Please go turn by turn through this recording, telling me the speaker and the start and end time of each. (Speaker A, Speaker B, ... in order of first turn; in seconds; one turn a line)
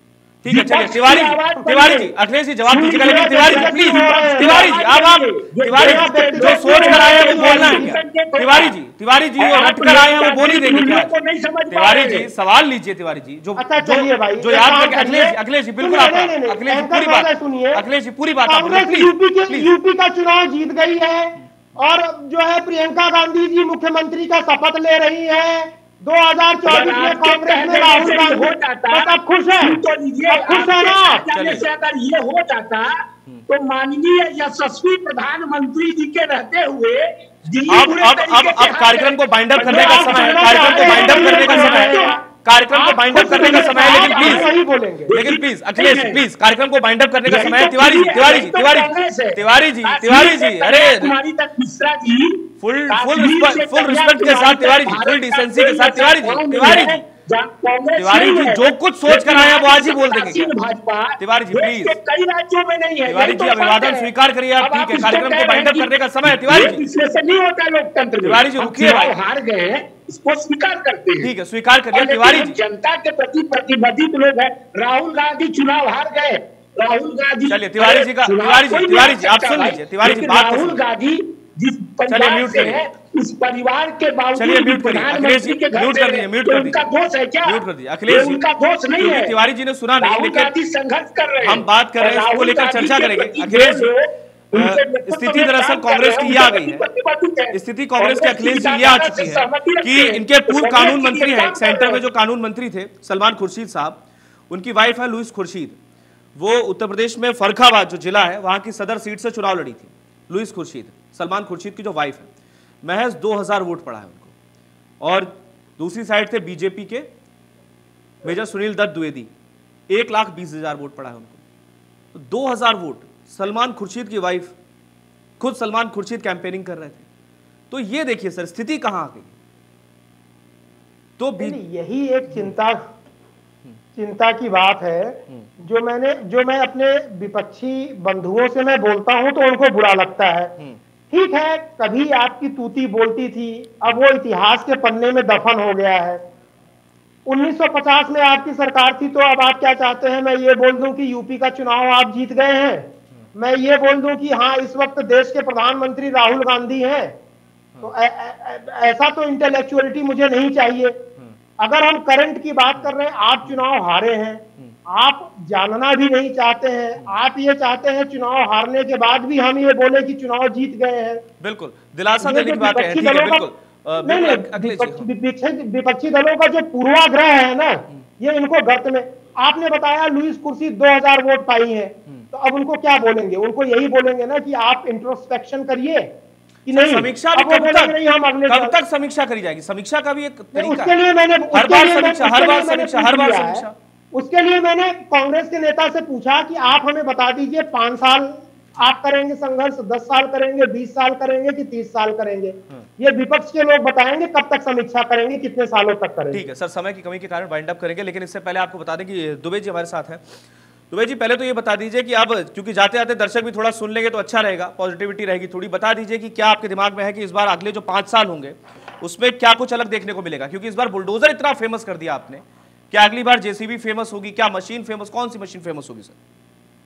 Speaker A: 0.4-11.1
Speaker B: 0.5-2.1
Speaker B: 2.7-8.7
Speaker C: 2.9-4.7
Speaker C: 5.7-8.0
Speaker B: 9.4-12.3
Speaker A: 11.7-19.8
Speaker C: 13.6-17.8
Speaker C: 18.4-31.2
Speaker B: 26.7-42.2
Speaker A: 31.3-31.6
Speaker A: 37.7-44.5
Speaker C: 39.6-45.1
Speaker B: 43.1-44.5
Speaker B: 45.1-46.2
Speaker A: 45.1-51.1
Speaker B: 47.3-71.3
Speaker A: 52.6-57.1
Speaker A: 58.0-60.5
Speaker A: 61.2-62.0
Speaker A: 63.1-66.8
Speaker A: 68.2-69.2
Speaker A: 71.2-72.6
Speaker B: 71.9-89.3
Speaker A: 77.5-80.8
Speaker A: 82.1-82.8
Speaker A: 84.3-86.9
Speaker A: 87.4-88.4
Speaker A: 89.0-90.5
Speaker B: 90.0-102.0
Speaker A: 91.4-93.9
Speaker A: 94.5-96.9
Speaker A: 97.5-105.8
Speaker A: 106.4-112.3
Speaker A: 112.8-114.3
Speaker A: 115.0-117.1
Speaker A: 118.2-119.3
Speaker A: 119.9-121.4
Speaker A: 122.1-124.5
Speaker A: 125.4-127.1
Speaker A: 127.7-129.3
Speaker A: 131.2-131.6
Speaker C: 131.4-132.8
Speaker C: 134.0-140.6
Speaker C: 141.1-146.2
Speaker C: 147.3-157.2
Speaker C: 157.8-161.0
Speaker C: 161.6-171.2
Speaker A: 171.4-175.1
Speaker C: 172.2-173.5
Speaker C: 174.0-186.1
Speaker C: 186.7-188.8
Speaker A: 186.7-190.9
Speaker C: 190.6-206.4
Speaker A: 191.5-193.8
Speaker A: 206.3-210.2
Speaker A: 210.9-226.2